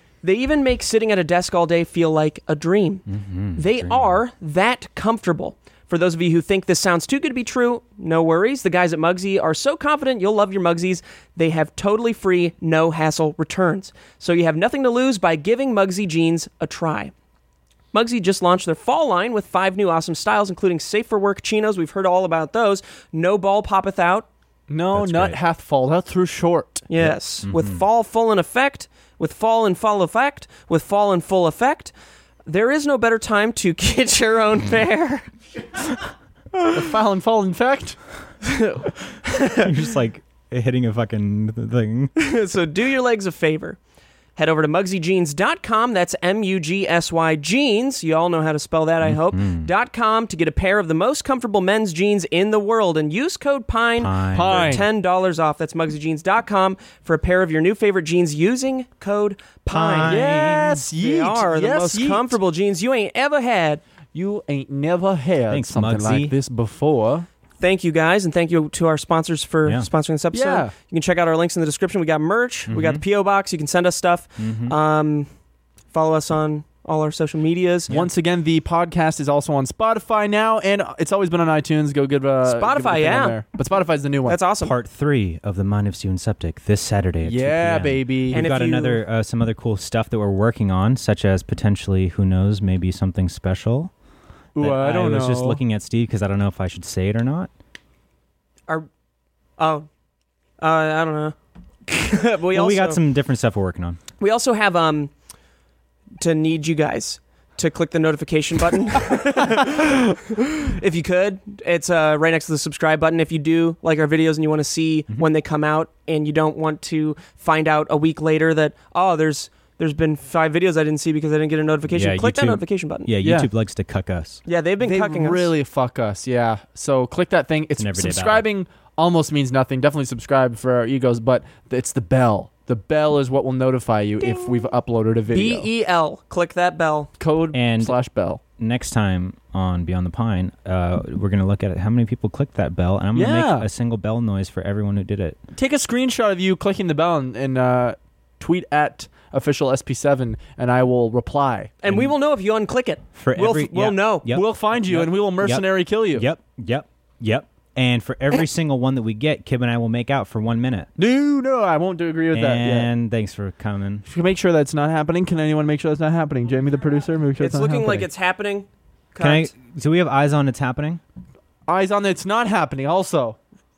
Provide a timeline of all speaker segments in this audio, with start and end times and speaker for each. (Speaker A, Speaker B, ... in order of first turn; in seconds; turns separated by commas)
Speaker A: 0.2-3.0, Speaker B: 3.1-4.2, Speaker A: 3.5-17.1, Speaker A: 17.9-24.3, Speaker C: 24.7-26.9, Speaker B: 24.9-25.4, Speaker A: 26.9-31.9, Speaker B: 27.0-27.8, Speaker A: 32.5-35.3, Speaker C: 36.7-38.0, Speaker A: 38.4-39.7, Speaker B: 39.5-42.1, Speaker A: 42.1-43.8, Speaker A: 44.4-60.2, Speaker B: 49.0-49.7, Speaker B: 54.0-54.7, Speaker C: 54.3-54.9, Speaker B: 59.7-60.8, Speaker C: 60.0-62.4, Speaker A: 61.0-63.8, Speaker C: 64.1-67.3, Speaker B: 65.5-66.3, Speaker A: 67.6-75.3, Speaker C: 70.3-70.7, Speaker B: 72.7-73.0, Speaker B: 74.4-74.8, Speaker A: 75.9-77.9, Speaker C: 77.9-84.4, Speaker A: 82.4-83.4, Speaker A: 84.2-84.7, Speaker B: 84.6-93.9, Speaker C: 87.2-88.5, Speaker A: 88.3-89.0, Speaker C: 94.5-95.6, Speaker B: 94.6-97.5, Speaker A: 99.6-99.9, Speaker A: 100.6-101.3, Speaker A: 101.9-103.0, Speaker B: 102.5-104.0, Speaker A: 104.2-105.1, Speaker A: 106.2-123.1, Speaker B: 121.9-124.4, Speaker C: 123.2-123.5, Speaker A: 124.5-125.5, Speaker C: 124.8-135.7, Speaker B: 127.8-128.5, Speaker A: 134.2-134.5, Speaker A: 135.3-137.1, Speaker C: 137.2-138.4, Speaker B: 137.5-137.9, Speaker B: 138.6-145.4, Speaker C: 143.1-143.7, Speaker C: 145.5-151.7, Speaker A: 151.8-154.3, Speaker B: 151.8-152.1, Speaker B: 153.1-160.9, Speaker C: 154.3-156.3, Speaker C: 161.0-162.9, Speaker B: 162.3-164.0, Speaker C: 164.1-168.1, Speaker A: 167.4-169.5, Speaker B: 169.2-171.0, Speaker C: 171.7-173.4